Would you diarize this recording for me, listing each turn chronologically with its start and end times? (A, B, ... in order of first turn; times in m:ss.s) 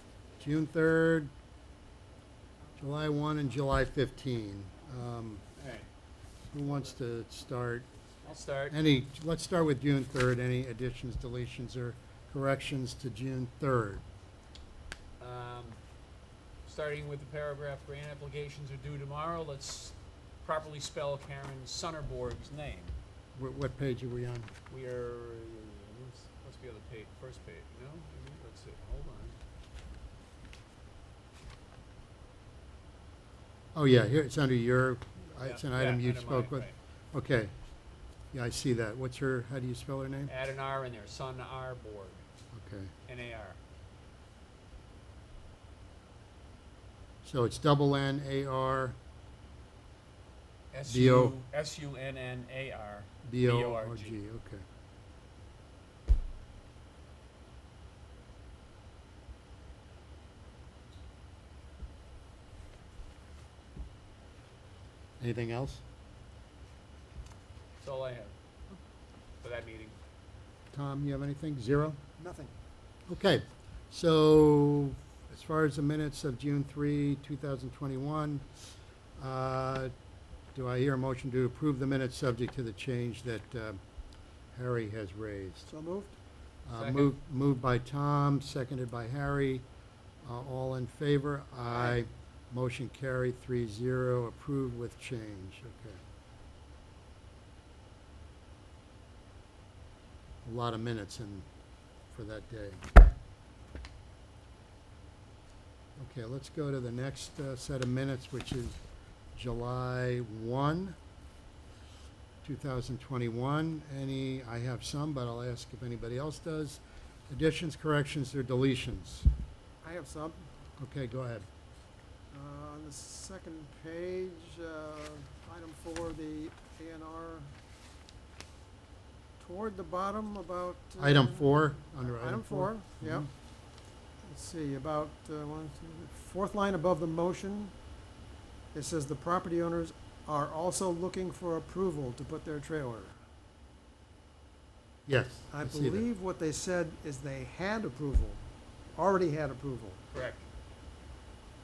0:00.4-0:01.3 A
0:02.8-0:05.4 A
0:05.6-0:05.9 B
0:06.5-0:07.9 A
0:08.3-0:08.8 B
0:08.7-0:14.0 A
0:15.2-0:15.8 B
0:16.6-0:23.0 B
0:23.4-0:24.5 A
0:24.7-0:29.4 B
0:33.8-0:37.5 A
0:35.4-0:36.8 B
0:38.3-0:40.3 A
0:40.3-0:42.2 B
0:42.5-0:42.9 A
0:43.1-0:43.6 B
0:47.2-0:49.0 A
0:50.7-0:54.2 B
0:50.9-0:51.4 A
0:53.2-0:54.6 A
1:05.2-1:05.8 A
1:07.8-1:08.3 B
1:09.4-1:10.0 B
1:10.7-1:12.0 A
1:12.2-1:12.5 C
1:13.1-1:18.5 A
1:19.2-1:19.9 A
1:20.6-1:23.8 A
1:24.5-1:25.7 A
1:25.7-1:26.2 C
1:26.7-1:29.6 A
1:26.7-1:27.1 B
1:30.2-1:36.0 A
1:40.4-1:41.5 A
1:42.1-1:43.0 A
1:46.0-1:48.8 A
1:49.4-1:51.0 A
1:52.4-1:59.3 A
1:59.8-2:00.5 C
2:00.8-2:01.5 A
2:02.3-2:07.5 C
2:09.4-2:13.3 C
2:11.0-2:13.3 A
2:14.2-2:17.7 C
2:18.7-2:23.2 C
2:25.1-2:26.0 A
2:25.5-2:28.4 C
2:29.0-2:30.0 C
2:30.1-2:30.4 B